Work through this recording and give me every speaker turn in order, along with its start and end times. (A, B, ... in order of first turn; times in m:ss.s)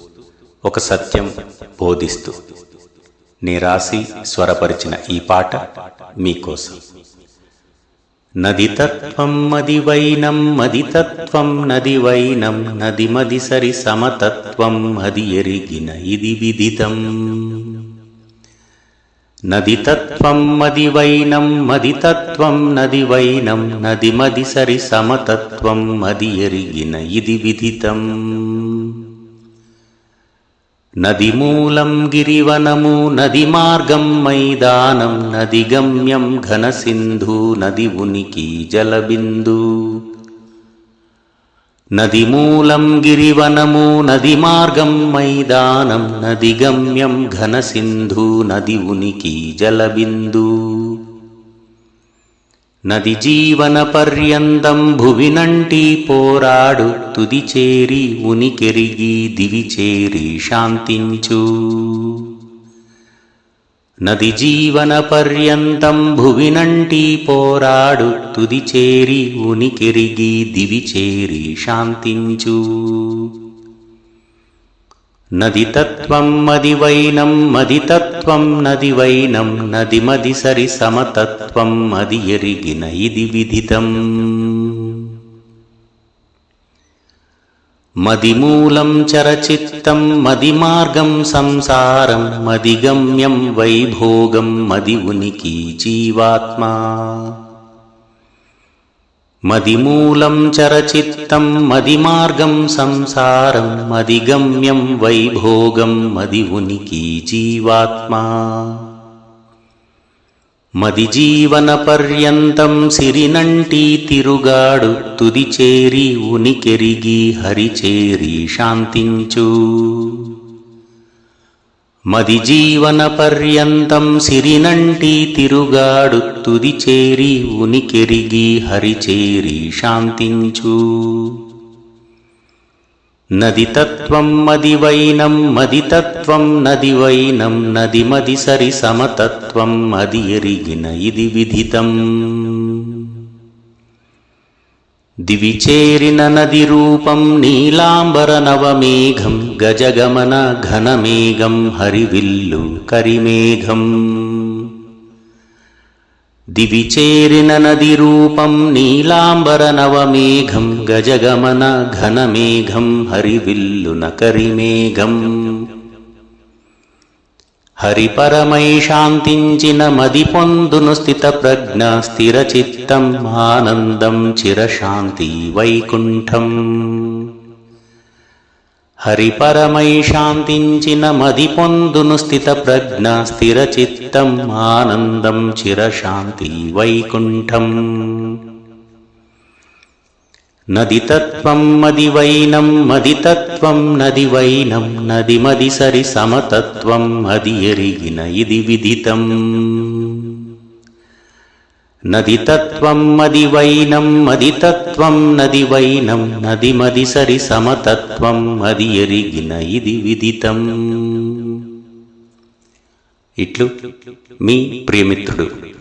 0:00.6-0:02.4 A
0:03.4-0:05.7 A
0:06.2-0:06.8 A
0:08.4-0:17.9 A
0:19.5-0:29.1 A
0:31.0-0:40.0 A
0:42.0-0:51.0 A
0:52.9-1:02.3 A
1:04.1-1:13.3 A
1:15.4-1:25.2 A
1:28.0-1:37.4 A
1:39.5-1:48.9 A
1:50.8-2:00.4 A
2:02.1-2:11.4 A
2:13.4-2:23.2 A
2:25.3-2:34.7 A
2:36.6-2:45.7 A
2:47.8-2:57.3 A
2:59.1-3:08.4 A
3:10.7-3:20.5 A
3:22.1-3:31.7 A
3:33.4-3:33.7 A
3:34.4-3:35.5 A